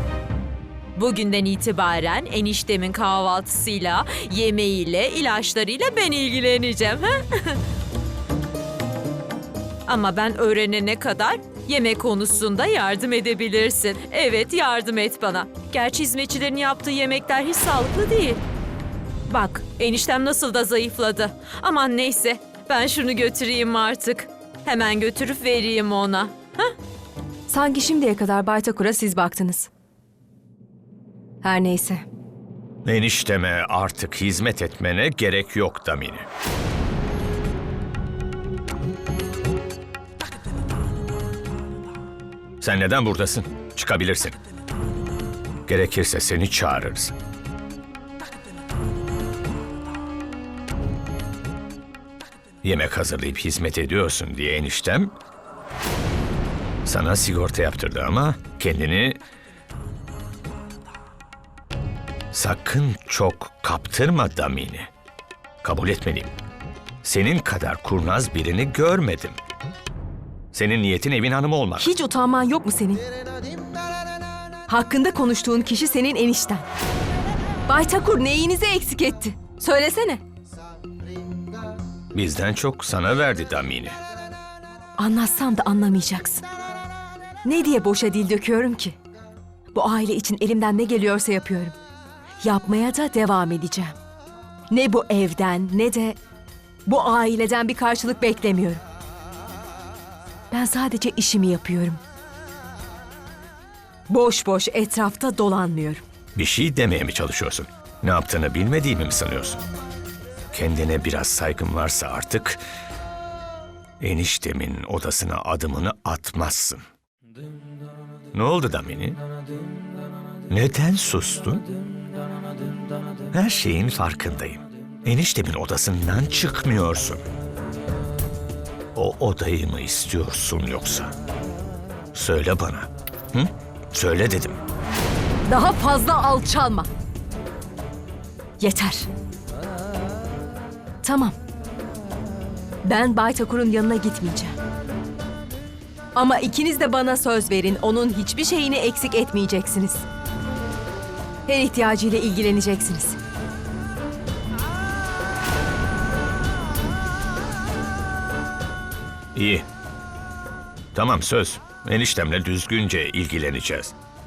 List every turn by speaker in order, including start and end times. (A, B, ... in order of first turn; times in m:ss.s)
0:01.0-0:07.6 A
0:09.9-0:18.4 A
0:19.3-0:26.7 A
0:27.5-0:29.7 B
0:31.4-0:32.0 B
0:32.8-0:36.3 C
0:42.6-0:44.4 C
0:45.7-0:47.1 C
0:52.6-0:55.1 C
0:56.8-0:59.2 C
1:02.3-1:04.9 C
1:05.6-1:06.3 C
1:07.0-1:09.4 C
1:10.5-1:11.9 C
1:11.8-1:13.0 B
1:14.7-1:16.7 B
1:17.7-1:20.2 B
1:22.1-1:24.0 C
1:25.0-1:26.4 B
1:27.4-1:29.0 B
1:29.7-1:31.8 B
1:32.4-1:34.0 B
1:34.7-1:36.2 B
1:36.8-1:38.8 B
1:40.5-1:42.0 B
1:44.1-1:46.0 B
1:46.4-1:49.6 C
1:50.5-1:52.6 C
1:54.0-1:56.8 C
1:58.3-1:59.2 C
2:00.5-2:01.7 C
2:03.3-2:07.2 C
2:09.0-2:11.1 C
2:12.1-2:14.6 C
2:15.5-2:16.9 B
2:18.6-2:19.1 B
2:21.0-2:21.4 B
2:22.8-2:24.6 B
2:26.2-2:30.0 B
2:31.5-2:33.2 B
2:39.4-2:39.6 C
2:41.0-2:44.0 C